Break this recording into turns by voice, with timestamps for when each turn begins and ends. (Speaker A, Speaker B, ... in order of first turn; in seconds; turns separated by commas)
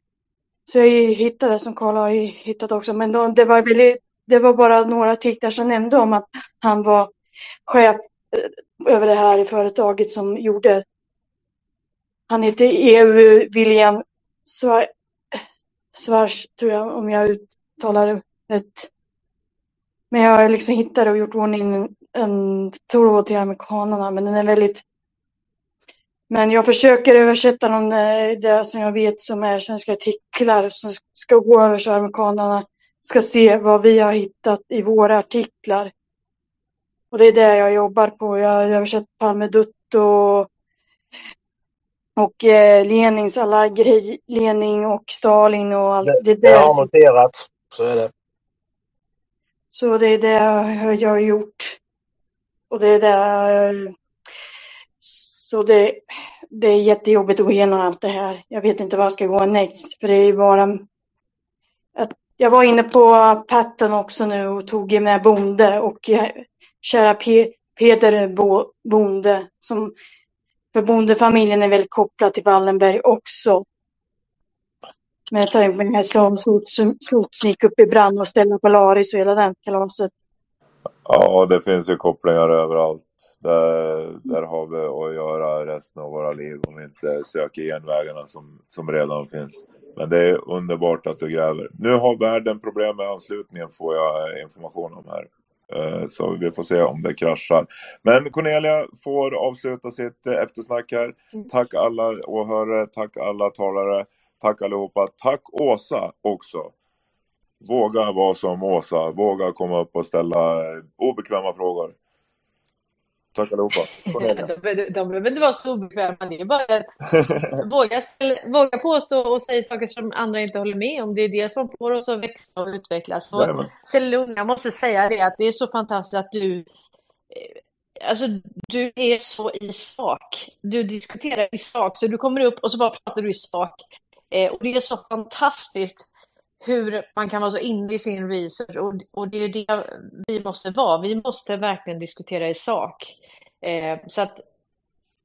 Speaker A: 0.7-7.1, Speaker A: 7.7-10.8, Speaker A: 12.3-14.9, Speaker A: 15.9-18.9, Speaker A: 20.1-24.8, Speaker A: 26.3-35.9, Speaker A: 37.1-40.5, Speaker A: 42.2-46.9, Speaker B: 46.0-48.1, Speaker A: 49.7-51.8, Speaker A: 52.7-53.9, Speaker A: 55.0-60.8, Speaker A: 62.0-69.9, Speaker A: 70.7-73.6, Speaker A: 75.3-80.1, Speaker C: 81.0-106.7, Speaker C: 107.6-112.0, Speaker C: 113.3-114.5, Speaker D: 114.1-116.9, Speaker C: 117.2-117.6, Speaker D: 117.6-126.7, Speaker C: 123.3-123.7, Speaker D: 127.3-133.8, Speaker D: 134.3-136.1, Speaker D: 136.6-144.4